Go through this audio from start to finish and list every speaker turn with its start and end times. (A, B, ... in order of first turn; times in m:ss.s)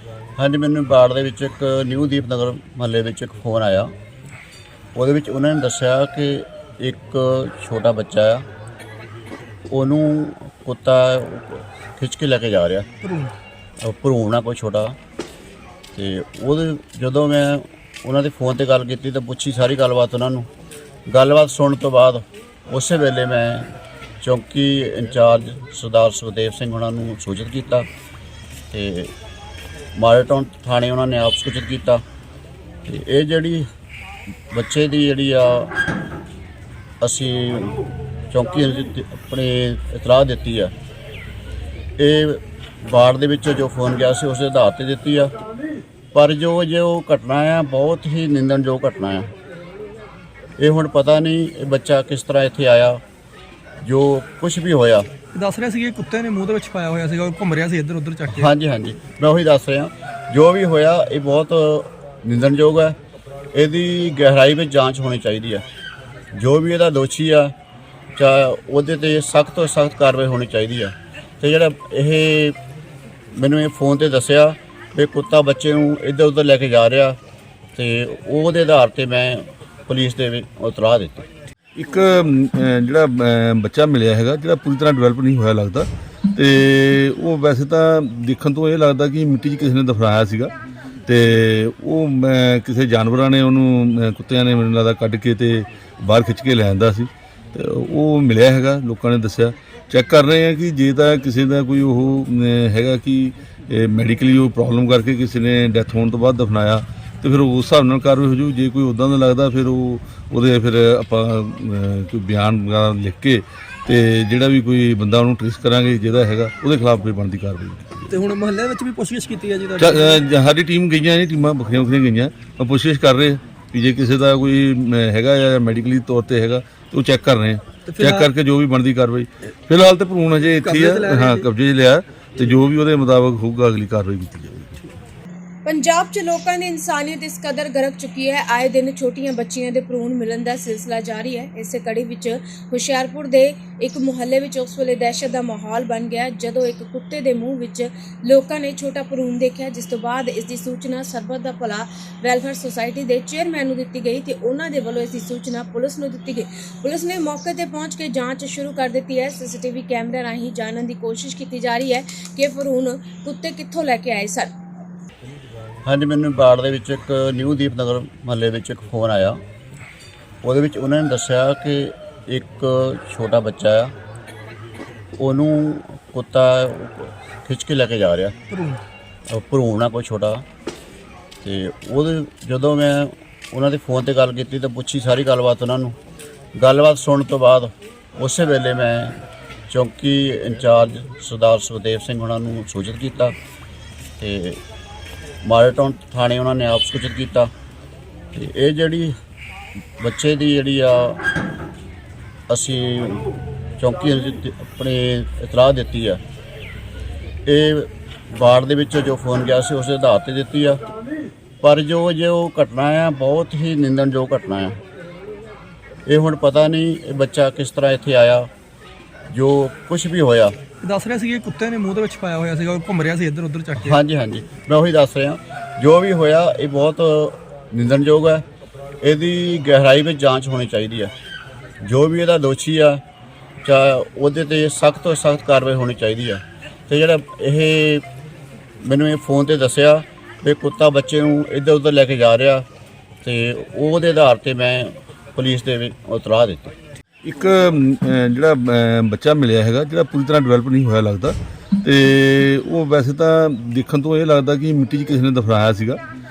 0:00.4-0:03.9 A
0:05.0-0:08.5 A
0:09.7-0:12.9 A
0:13.0-0:13.3 B
0:13.8-0:15.0 A
0:16.0-0:20.5 A
0:21.1-0:23.7 A
0:24.2-0:27.9 A
0:28.7-0:29.1 A
0:30.0-0:32.0 A
0:32.9-0:33.7 A
0:34.5-0:35.7 A
0:37.0-0:37.8 A
0:38.3-0:40.7 A
0:42.0-0:45.4 A
0:46.1-0:49.3 A
0:50.6-0:53.0 A
0:53.8-0:55.1 A
0:55.3-0:58.5 B
0:58.3-1:03.0 A
1:03.5-1:05.6 A
1:06.3-1:07.5 A
1:08.2-1:12.6 A
1:13.3-1:17.2 A
1:17.8-1:21.3 A
1:21.8-1:30.5 C
1:31.1-1:58.2 C
1:58.1-2:00.2 B
1:59.8-2:14.9 C
2:07.9-2:08.3 B
2:10.6-2:11.5 B
2:15.6-2:44.5 D
2:45.8-2:49.4 A
2:50.4-2:53.9 A
2:55.2-2:58.4 A
2:58.5-2:58.8 B
2:59.3-3:00.4 A
3:01.4-3:06.0 A
3:06.6-3:09.2 A
3:09.7-3:13.4 A
3:14.2-3:14.6 A
3:15.4-3:17.5 A
3:18.3-3:19.2 A
3:20.0-3:21.2 A
3:22.5-3:23.3 A
3:23.8-3:26.2 A
3:27.5-3:30.8 A
3:31.6-3:34.8 A
3:36.1-3:38.5 A
3:39.3-3:40.6 A
3:40.8-3:44.0 B
3:43.8-3:48.4 A
3:49.0-3:51.1 A
3:51.8-3:53.0 A
3:53.6-3:58.0 A
3:58.8-4:02.7 A
4:03.2-4:06.8 A
4:07.2-4:16.0 C